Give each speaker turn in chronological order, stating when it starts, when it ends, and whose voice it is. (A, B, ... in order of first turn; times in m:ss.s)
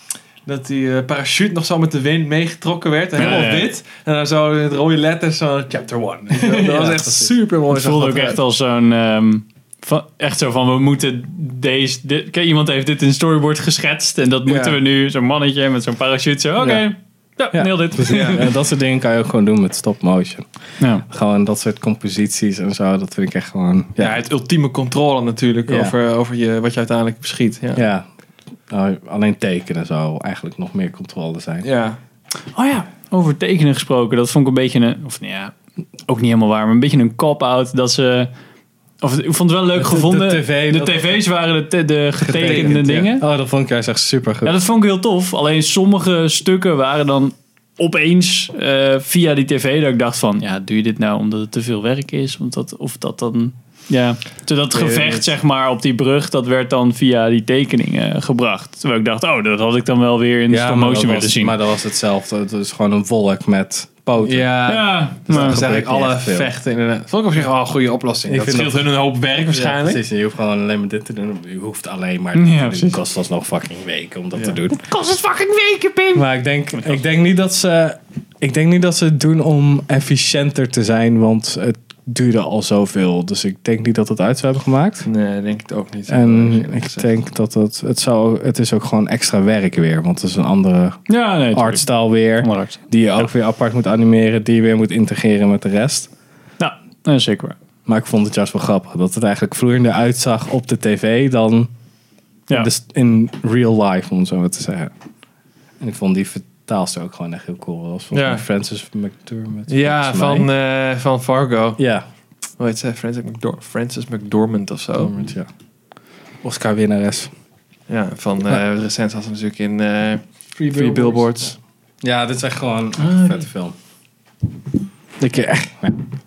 0:00.4-0:08.4 A
0:03.2-0:03.7 B
0:06.3-0:07.3 C
0:07.7-0:18.4 B
0:14.4-0:14.8 A
0:16.6-0:16.9 C
0:17.5-0:20.5 C
0:18.1-0:18.4 A
0:21.0-0:24.2 C
0:24.0-0:27.8 A
0:25.7-0:25.9 C
0:27.7-0:28.0 C
0:28.7-0:31.7 C
0:31.6-0:32.0 A
0:32.5-0:35.5 B
0:36.1-0:38.3 B
0:39.0-0:43.2 B
0:39.7-0:41.2 C
0:42.2-0:44.6 C
0:42.4-0:43.1 A
0:44.4-1:01.6 B
0:54.7-0:55.3 A
1:00.5-1:04.7 C
1:04.2-1:10.0 A
1:04.7-1:05.6 B
1:05.3-1:06.5 C
1:08.2-1:08.9 C
1:09.5-1:14.9 C
1:12.3-1:12.9 B
1:14.9-1:16.2 B
1:16.1-1:25.1 C
1:25.0-1:27.1 A
1:26.1-1:36.1 C
1:31.1-1:33.2 B
1:36.6-1:37.6 B
1:37.8-1:41.7 C
1:42.5-1:44.9 C
1:45.8-1:50.5 C
1:48.1-1:48.4 A
1:49.7-1:51.8 A
1:51.8-1:52.0 C
1:52.6-1:55.1 A
1:55.0-1:55.5 C
1:56.4-1:57.3 C
1:57.9-2:01.6 A
2:00.6-2:01.3 C
2:02.0-2:03.7 C
2:05.2-2:06.0 C